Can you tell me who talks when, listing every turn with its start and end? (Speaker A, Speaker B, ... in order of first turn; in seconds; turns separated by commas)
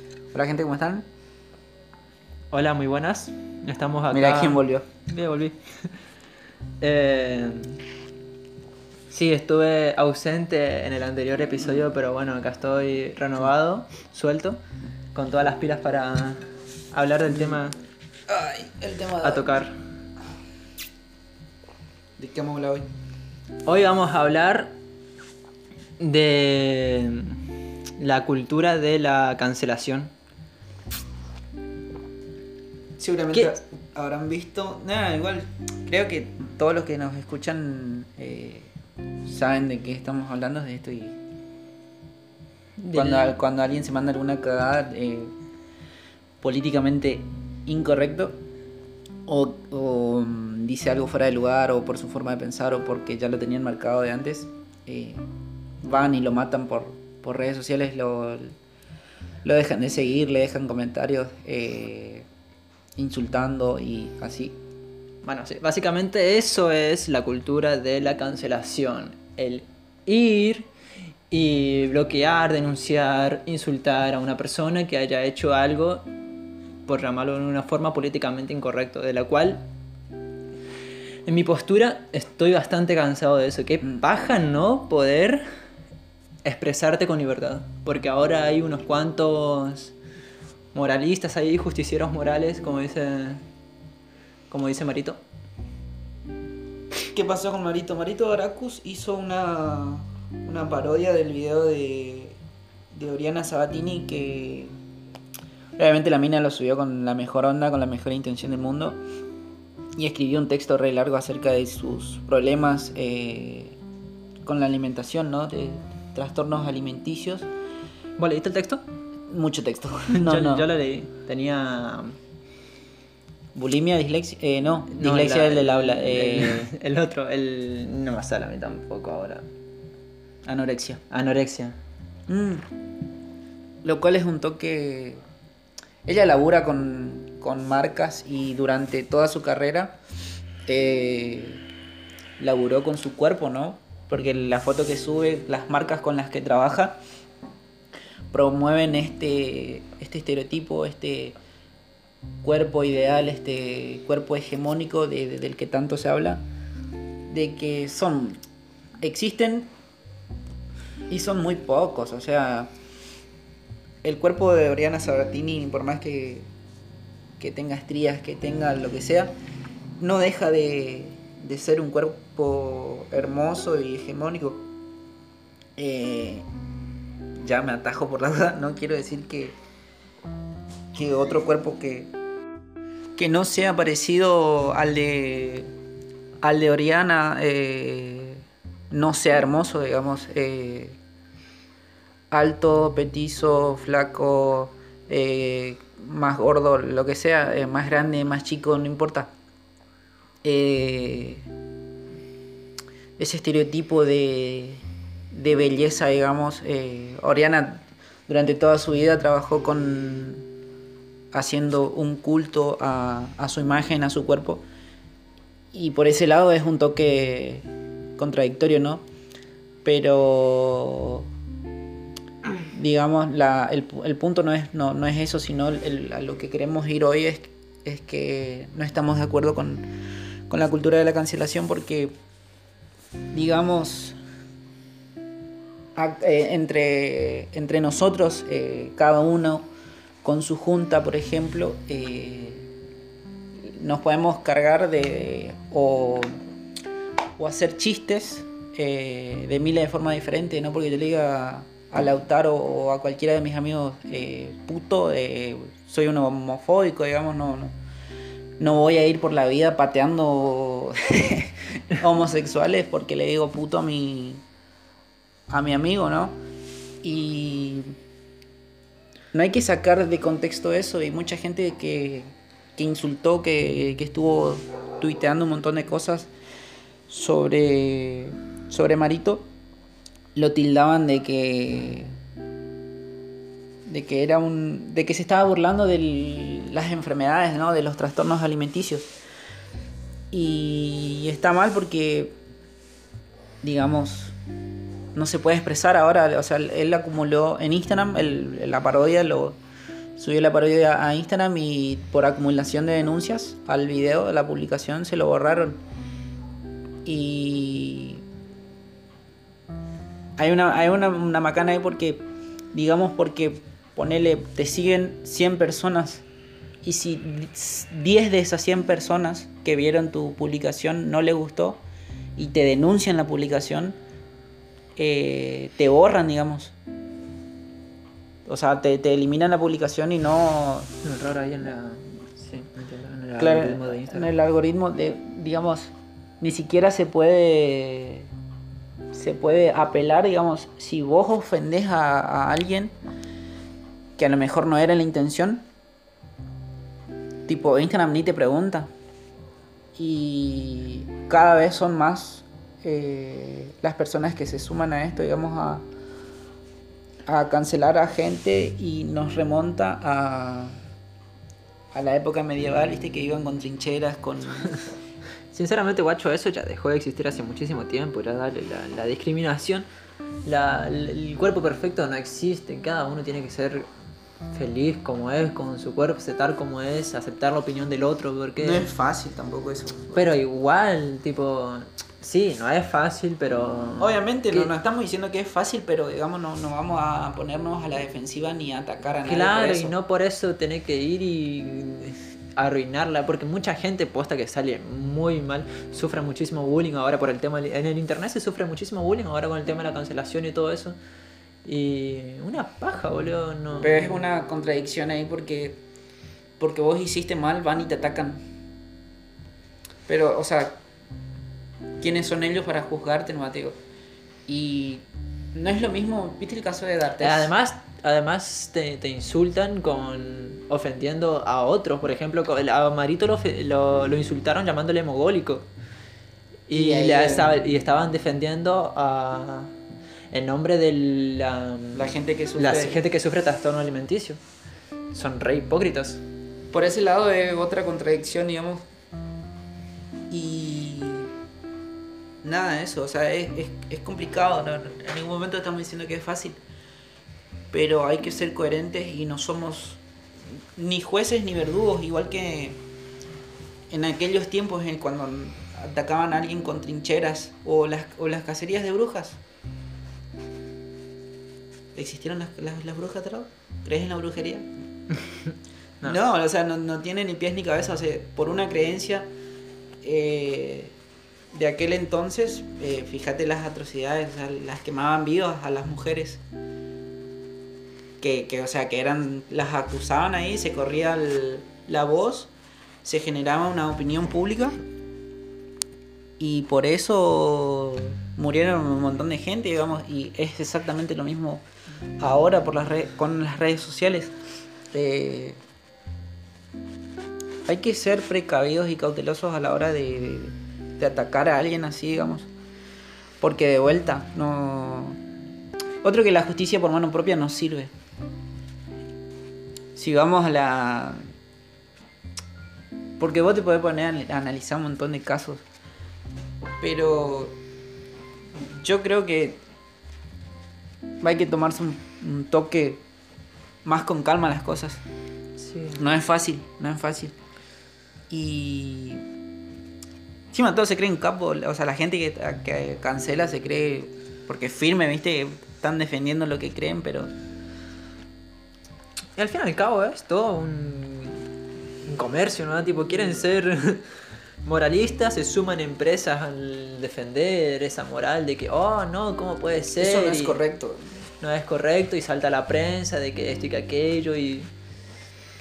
Speaker A: 0.3-1.1, Speaker B: 2.5-5.6, Speaker A: 4.1-4.9, Speaker B: 6.8-7.8, Speaker B: 9.1-14.6, Speaker B: 15.2-17.8, Speaker A: 18.3-19.5, Speaker B: 19.2-19.7, Speaker A: 22.2-22.9, Speaker B: 23.7-24.8, Speaker B: 26.0-27.4, Speaker B: 28.0-30.1, Speaker A: 33.0-38.7, Speaker A: 39.3-41.2, Speaker B: 42.8-43.4, Speaker A: 42.9-45.3, Speaker A: 46.4-48.4, Speaker A: 49.3-55.2, Speaker A: 55.8-58.5, Speaker A: 59.4-62.3, Speaker A: 63.0-64.5, Speaker B: 65.2-70.7, Speaker B: 71.3-76.1, Speaker B: 76.9-79.6, Speaker B: 81.3-85.5, Speaker B: 86.5-89.9, Speaker B: 90.7-93.4, Speaker B: 94.5-95.2, Speaker A: 97.1-102.4, Speaker A: 102.9-104.7, Speaker A: 105.8-109.0, Speaker A: 110.0-113.8, Speaker A: 114.5-117.5, Speaker B: 118.2-118.8, Speaker A: 119.3-120.7, Speaker B: 120.2-122.2, Speaker A: 123.5-126.7, Speaker B: 124.9-129.5, Speaker A: 130.4-131.0, Speaker B: 131.1-131.8, Speaker A: 132.3-132.7, Speaker A: 133.8-135.2, Speaker A: 136.1-140.0, Speaker A: 140.7-141.6, Speaker A: 142.4-147.0, Speaker A: 148.3-151.4, Speaker A: 152.4-156.4, Speaker A: 157.3-158.4, Speaker A: 159.0-159.7, Speaker A: 161.1-162.7, Speaker A: 164.0-166.5, Speaker A: 167.4-169.3, Speaker A: 170.0-174.6, Speaker A: 175.8-176.4, Speaker A: 177.4-179.6, Speaker A: 180.9-182.1, Speaker A: 183.2-185.7, Speaker A: 186.4-191.0, Speaker A: 192.3-199.3, Speaker A: 200.4-201.5, Speaker A: 203.2-210.4, Speaker A: 211.3-214.6, Speaker A: 215.7-217.7, Speaker A: 218.2-219.0, Speaker A: 219.8-221.3, Speaker A: 222.7-229.9, Speaker A: 230.5-232.1, Speaker A: 233.3-234.2, Speaker A: 236.0-239.7, Speaker A: 240.2-242.7, Speaker A: 243.7-246.4, Speaker A: 247.4-257.7, Speaker A: 258.6-264.4, Speaker A: 265.5-266.4, Speaker A: 267.0-267.9, Speaker A: 269.3-276.3, Speaker A: 277.1-279.5, Speaker A: 280.4-282.1, Speaker A: 283.9-289.1, Speaker A: 290.3-292.4, Speaker A: 293.6-294.4, Speaker A: 295.1-299.6, Speaker A: 300.2-305.8, Speaker A: 307.1-308.2, Speaker A: 310.4-316.2, Speaker A: 316.8-321.8, Speaker A: 322.4-324.0, Speaker A: 325.0-326.7, Speaker A: 328.5-330.9, Speaker B: 331.0-334.3, Speaker A: 333.4-338.3, Speaker A: 339.1-342.9, Speaker A: 344.2-345.6, Speaker A: 347.5-348.9, Speaker A: 350.0-355.9, Speaker A: 357.3-360.8, Speaker A: 361.9-364.7, Speaker B: 365.5-369.9, Speaker B: 370.4-373.9, Speaker B: 374.5-378.8, Speaker A: 378.6-380.3, Speaker B: 380.1-384.7, Speaker A: 384.0-390.0, Speaker B: 389.2-401.0, Speaker B: 401.6-404.2, Speaker A: 403.8-405.8, Speaker A: 406.6-408.4, Speaker A: 410.1-410.8, Speaker A: 412.0-413.8, Speaker A: 414.5-417.5, Speaker B: 417.2-425.7, Speaker B: 426.7-429.7, Speaker A: 426.7-427.6, Speaker B: 430.3-432.1, Speaker A: 431.9-433.0, Speaker B: 432.6-434.4, Speaker B: 435.1-436.2, Speaker A: 436.7-438.9, Speaker A: 440.3-441.3, Speaker A: 442.4-446.6, Speaker A: 447.7-450.0, Speaker A: 450.8-452.8, Speaker A: 453.9-459.4, Speaker A: 461.9-464.7, Speaker A: 466.0-469.3, Speaker A: 470.0-470.9, Speaker A: 471.5-476.4, Speaker A: 478.2-482.5, Speaker A: 483.0-484.8, Speaker A: 486.4-491.6, Speaker A: 492.2-494.3, Speaker A: 494.9-495.6, Speaker A: 497.7-502.5, Speaker A: 503.4-505.2, Speaker A: 506.0-507.9, Speaker A: 510.0-511.2, Speaker A: 513.2-515.6, Speaker A: 516.8-517.6, Speaker A: 518.8-519.6, Speaker A: 521.2-523.0, Speaker A: 523.9-525.0, Speaker B: 525.6-526.0, Speaker A: 526.0-527.3, Speaker A: 528.3-529.2, Speaker A: 530.5-537.3, Speaker B: 539.4-541.4, Speaker B: 542.1-544.1, Speaker B: 544.6-550.6, Speaker A: 550.0-551.1, Speaker B: 551.4-554.7